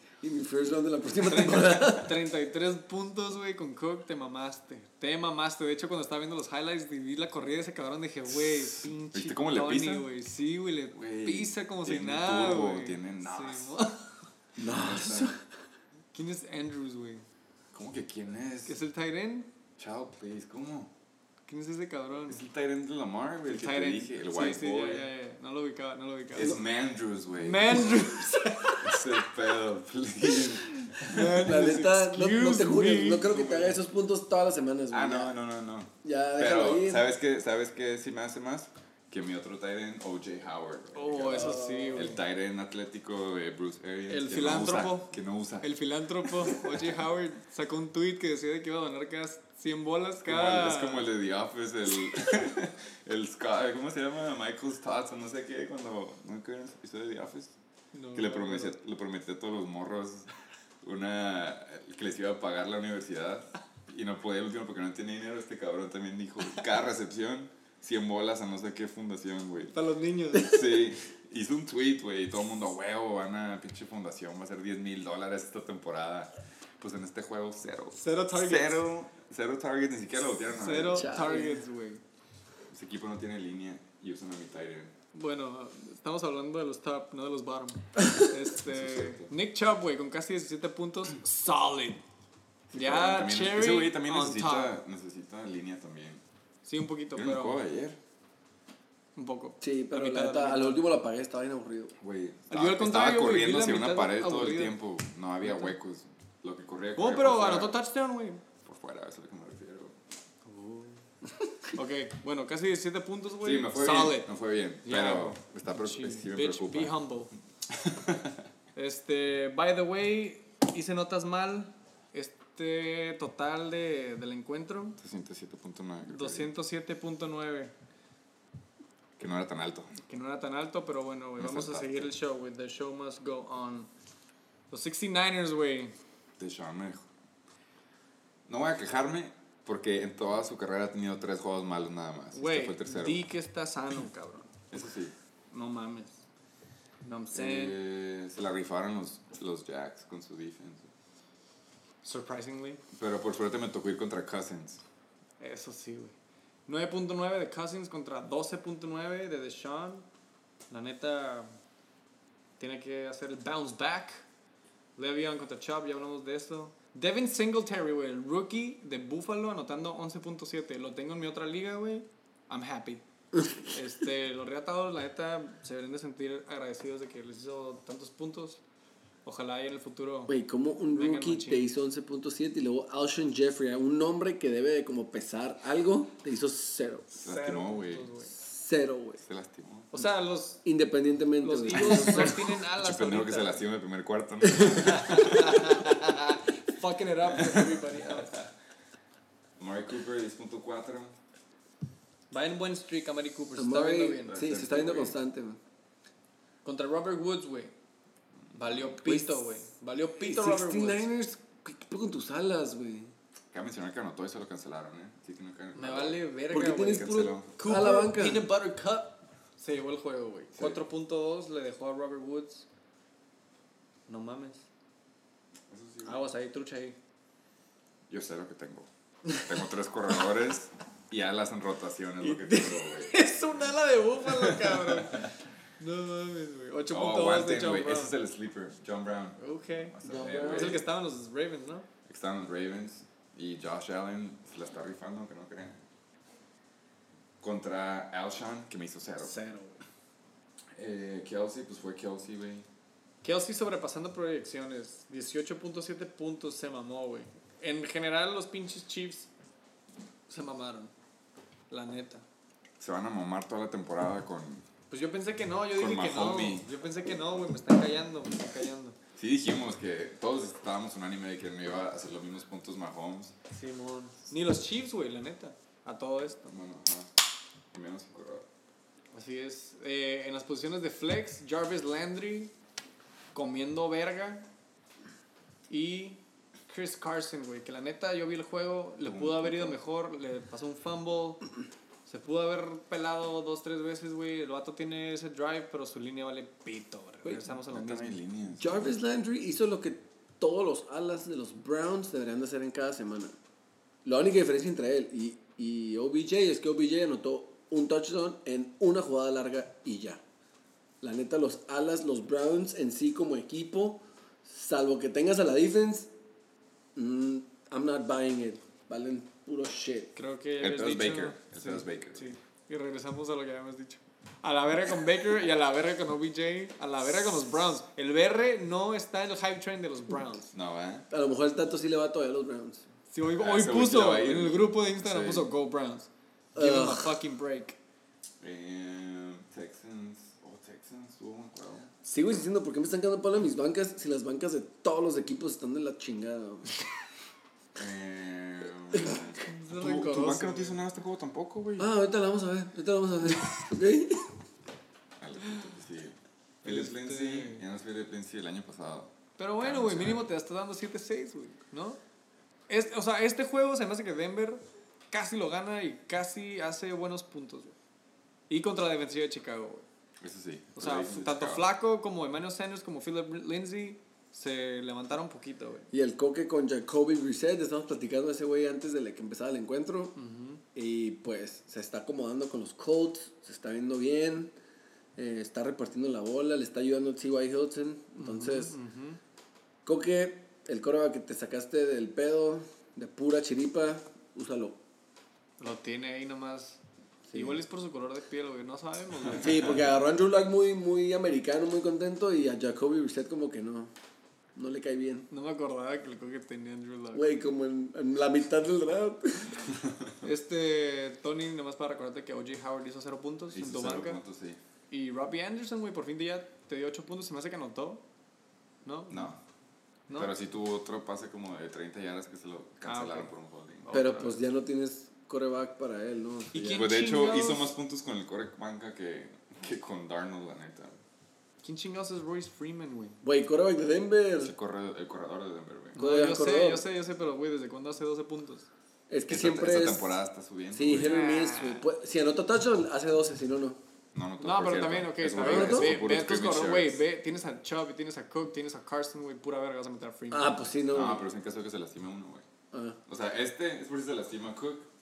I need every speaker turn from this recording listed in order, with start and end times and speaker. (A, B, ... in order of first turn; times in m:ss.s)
0:00.2-0:02.2 A
0:01.2-0:14.2 B
0:08.3-0:10.1 C
0:10.9-0:13.8 C
0:14.6-0:15.4 A
0:14.6-0:15.3 C
0:16.1-0:17.2 B
0:17.7-0:18.8 C
0:18.6-0:19.5 B
0:19.8-0:20.9 C
0:21.5-0:22.4 B
0:22.3-0:25.1 C
0:23.5-0:26.6 B
0:26.3-0:28.2 C
0:27.4-0:29.2 B
0:28.8-0:31.4 C
0:30.3-0:33.3 B
0:31.2-0:35.3 A
0:33.2-0:33.8 C
0:34.9-0:45.7 C
0:36.0-0:37.0 A
0:40.9-0:42.2 B
0:41.3-0:42.1 A
0:44.1-0:51.1 B
0:46.2-0:47.0 C
0:50.2-0:57.5 C
0:57.9-0:58.8 B
0:58.1-1:00.3 C
1:00.8-1:09.8 C
1:09.7-1:10.6 B
1:10.3-1:21.4 C
1:18.0-1:18.8 B
1:20.5-1:22.0 B
1:20.9-1:21.6 A
1:22.7-1:24.9 C
1:25.1-1:32.0 B
1:28.6-1:29.3 C
1:32.7-1:36.2 C
1:32.7-1:34.7 B
1:36.6-1:37.6 B
1:37.1-1:38.0 C
1:39.2-1:40.9 B
1:39.6-1:41.9 A
1:42.0-1:47.7 C
1:42.5-1:44.8 B
1:45.4-1:45.7 B
1:47.0-1:48.4 B
1:48.6-1:50.0 C
1:50.4-1:51.0 B
1:51.7-1:54.3 B
1:53.4-1:57.0 C
1:54.8-1:57.3 B
1:57.7-1:58.4 C
1:58.7-2:05.0 B
2:05.0-2:06.5 C
2:06.1-2:07.7 B
2:09.2-2:09.9 C
2:10.0-2:13.9 B
2:11.4-2:12.1 C
2:14.7-2:15.9 B
2:16.4-2:17.1 C
2:18.5-2:23.2 C
2:22.3-2:24.8 B
2:24.7-2:25.1 C
2:25.5-2:26.2 B
2:27.0-2:27.8 B
2:27.3-2:30.9 C
2:32.0-2:32.8 B
2:32.9-2:34.8 C
2:35.4-2:36.1 B
2:36.7-2:40.1 B
2:40.7-2:41.5 B
2:42.6-2:44.2 B
2:45.0-2:53.0 B
2:53.3-2:53.7 A
2:53.7-2:58.6 B
2:59.2-3:00.4 B
3:00.3-3:07.1 A
3:00.9-3:01.7 B
3:07.1-3:08.3 B
3:07.2-3:08.1 C
3:08.3-3:09.2 A
3:09.2-3:09.9 C
3:09.9-3:10.6 B
3:10.6-3:12.5 A
3:11.4-3:13.6 B
3:11.7-3:15.9 C
3:14.9-3:18.4 B
3:17.2-3:18.5 C
3:19.6-3:21.2 C
3:22.3-3:24.4 B
3:23.6-3:25.6 A
3:24.3-3:25.1 C
3:26.6-3:27.7 B
3:28.5-3:31.1 B
3:28.6-3:28.8 C
3:29.0-3:29.4 A
3:30.2-3:33.1 A
3:33.5-3:36.2 C
3:35.7-3:42.7 B
3:36.5-3:38.5 A
3:36.8-3:37.5 C
3:40.5-3:40.8 C
3:44.1-3:44.7 B
3:45.7-3:46.2 C
3:46.0-3:47.0 B
3:48.1-3:48.9 C
3:49.4-3:53.2 C
3:52.2-3:58.1 B
3:54.2-3:55.3 C
3:56.9-4:00.8 C
3:59.4-4:01.8 B
4:00.0-4:00.8 A
4:02.0-4:05.8 C
4:07.4-4:09.3 C
4:09.2-4:09.8 B
4:10.7-4:12.6 C
4:13.2-4:19.3 B
4:20.3-4:20.9 B
4:21.7-4:22.2 B
4:22.8-4:24.6 C
4:24.9-4:29.0 B
4:25.7-4:26.7 C
4:29.2-4:33.3 C
4:33.5-4:36.5 B
4:36.4-4:37.1 C
4:37.7-4:38.5 C
4:39.1-4:42.5 B
4:43.3-4:44.5 B
4:45.7-4:51.4 B
4:49.0-4:49.8 C
4:52.0-4:58.2 B
4:57.5-4:59.0 C
4:58.6-5:03.3 A
5:04.0-5:10.2 A
5:11.0-5:16.1 A
5:16.9-5:20.1 A
5:20.1-5:30.5 B
5:20.6-5:22.3 C
5:30.5-5:31.0 C
5:31.1-5:32.8 A
5:33.1-5:37.8 B
5:33.4-5:35.5 C
5:36.5-5:37.2 A
5:38.4-5:41.9 C
5:42.0-5:46.8 A
5:47.7-5:51.9 C
5:48.9-5:49.2 A
5:49.4-5:50.8 B
5:51.8-5:54.3 A
5:55.2-6:00.3 C
5:56.6-5:57.6 B
5:59.4-6:02.0 B
6:02.7-6:07.7 B
6:08.5-6:09.8 B
6:10.2-6:11.7 C
6:10.8-6:15.9 B
6:15.9-6:20.2 A
6:20.2-6:20.6 B
6:20.7-6:24.5 A
6:25.2-6:28.8 A
6:28.2-6:29.2 B
6:29.8-6:34.8 A
6:35.6-6:36.8 B
6:37.3-6:37.6 A
6:37.3-6:39.7 B
6:39.3-6:43.9 A
6:44.6-6:45.3 A
6:45.3-6:47.2 B
6:47.1-6:49.7 A
6:49.7-6:50.2 C
6:50.2-6:54.2 B
6:53.5-6:54.6 C
6:54.9-6:58.0 B
6:58.8-6:59.3 B
6:59.1-6:59.4 C
7:00.1-7:04.0 C
7:02.8-7:03.3 B
7:03.8-7:04.4 B
7:03.9-7:06.8 A
7:06.5-7:07.7 B
7:06.6-7:11.0 C
7:11.6-7:13.2 B
7:13.2-7:14.5 A
7:14.4-7:16.0 C
7:16.0-7:16.8 A
7:16.0-7:18.7 B
7:19.1-7:20.2 A
7:19.3-7:21.2 C
7:20.7-7:23.8 A
7:20.9-7:21.8 B
7:24.1-7:27.0 C
7:24.4-7:30.6 B
7:25.4-7:25.9 A
7:30.3-7:31.2 A
7:30.9-7:32.4 C
7:32.7-7:33.0 A
7:33.1-7:34.9 C